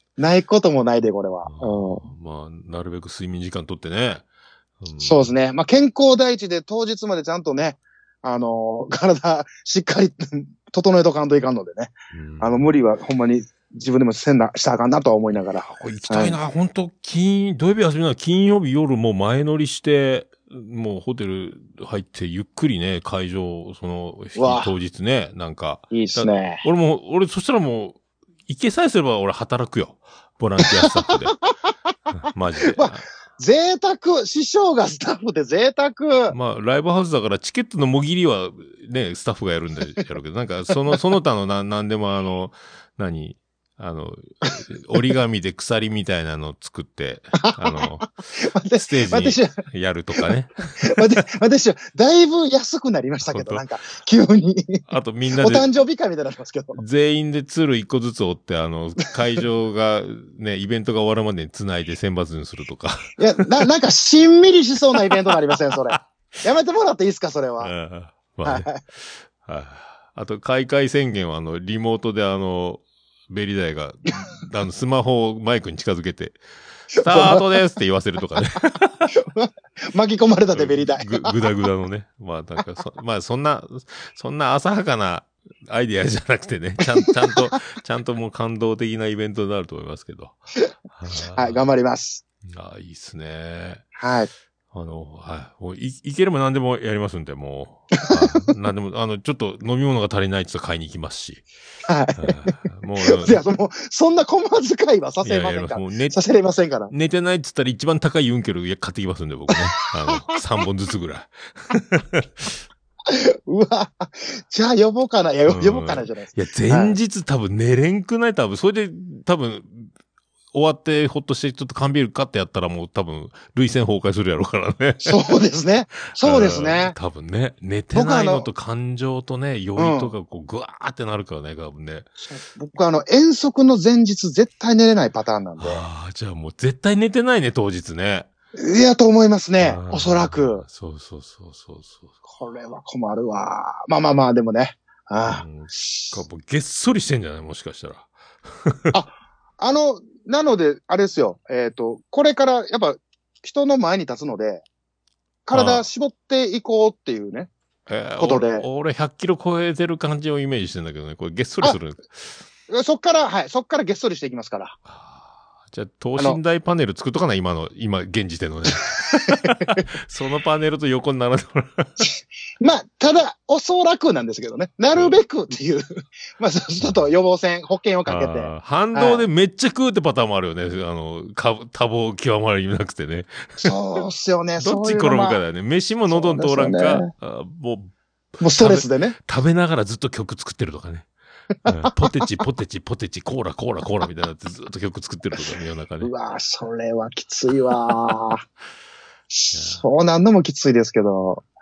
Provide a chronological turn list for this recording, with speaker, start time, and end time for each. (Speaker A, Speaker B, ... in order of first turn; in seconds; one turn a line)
Speaker A: 0.2-2.1
Speaker B: 1.4-4.2
Speaker B: 4.8-5.3
Speaker A: 5.0-16.4
Speaker B: 12.1-12.7
Speaker B: 15.3-31.3
Speaker A: 24.3-24.7
Speaker A: 25.9-26.6
Speaker A: 30.8-31.1
Speaker B: 32.1-33.0
Speaker A: 32.7-36.3
Speaker B: 36.3-48.1
Speaker A: 47.4-49.5
Speaker B: 48.7-51.1
Speaker A: 50.2-54.8
Speaker B: 53.2-53.6
Speaker B: 54.9-55.7
Speaker A: 55.3-56.8
Speaker B: 56.7-63.4
Speaker A: 63.2-67.7
Speaker B: 65.0-66.0
Speaker B: 67.6-79.1
Speaker A: 68.4-68.8
Speaker A: 77.0-77.5
Speaker A: 79.1-81.3
Speaker B: 80.5-90.4
Speaker A: 87.0-87.5
Speaker B: 90.9-91.6
Speaker A: 91.3-92.2
Speaker B: 92.4-93.8
Speaker A: 94.0-94.3
Speaker B: 94.7-101.5
Speaker A: 98.0-98.3
Speaker A: 101.8-106.9
Speaker B: 102.1-103.4
Speaker B: 105.2-106.2
Speaker B: 106.9-112.6
Speaker A: 113.1-117.0
Speaker B: 115.5-119.9
Speaker B: 120.5-125.2
Speaker A: 125.0-127.0
Speaker B: 126.1-132.1
Speaker A: 127.9-128.5
Speaker A: 129.8-130.1
Speaker A: 132.2-135.8
Speaker B: 135.6-138.3
Speaker A: 138.6-140.6
Speaker B: 139.6-142.2
Speaker A: 142.3-146.1
Speaker B: 145.2-149.0
Speaker A: 148.9-154.6
Speaker A: 155.5-157.5
Speaker B: 155.5-155.8
Speaker B: 157.9-162.4
Speaker A: 158.2-158.7
Speaker A: 162.7-164.8
Speaker B: 164.9-172.1
Speaker A: 168.9-169.5
Speaker A: 172.6-179.3
Speaker B: 174.9-175.2
Speaker B: 178.1-183.7
Speaker A: 183.6-185.4
Speaker B: 184.6-191.1
Speaker A: 186.1-187.1
Speaker A: 188.4-189.2
Speaker B: 191.6-196.1
Speaker A: 196.0-198.4
Speaker A: 199.3-201.4
Speaker B: 199.5-199.8